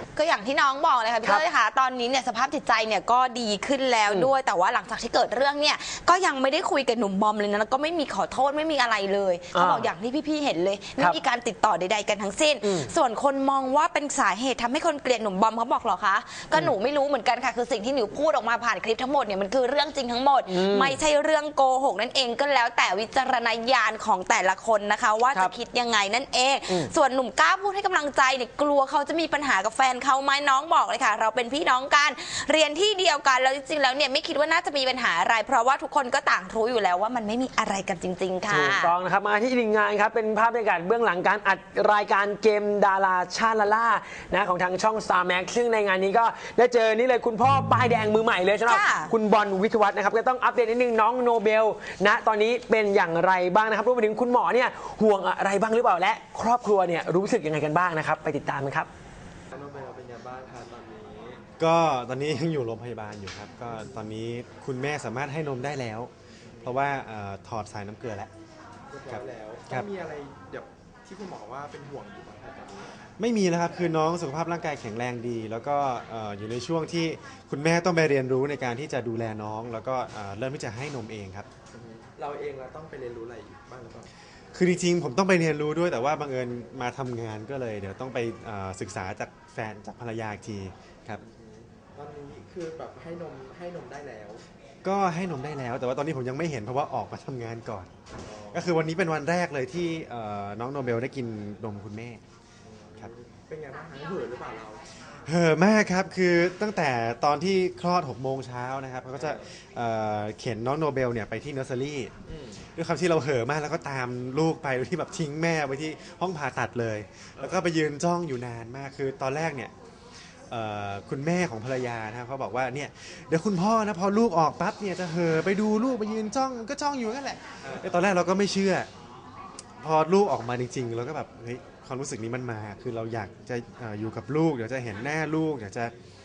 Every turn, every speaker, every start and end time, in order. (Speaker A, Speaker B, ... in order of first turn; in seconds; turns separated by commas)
Speaker A: 0.1-38.9, Speaker B: 9.5-9.9, Speaker B: 12.6-12.9, Speaker B: 20.5-21.0, Speaker B: 38.5-58.9, Speaker A: 48.7-49.1, Speaker C: 59.5-61.4, Speaker D: 61.6-66.1, Speaker D: 66.6-68.3, Speaker C: 68.9-72.9, Speaker D: 69.0-69.9, Speaker D: 73.2-81.5, Speaker C: 81.7-84.1, Speaker D: 84.5-91.2, Speaker C: 91.2-94.4, Speaker D: 94.8-97.9, Speaker C: 98.3-98.8, Speaker D: 98.5-102.2, Speaker C: 102.7-104.8, Speaker D: 105.2-112.1, Speaker C: 109.1-109.4, Speaker C: 112.3-112.6, Speaker D: 112.7-119.7, Speaker D: 120.5-128.9, Speaker D: 129.8-135.9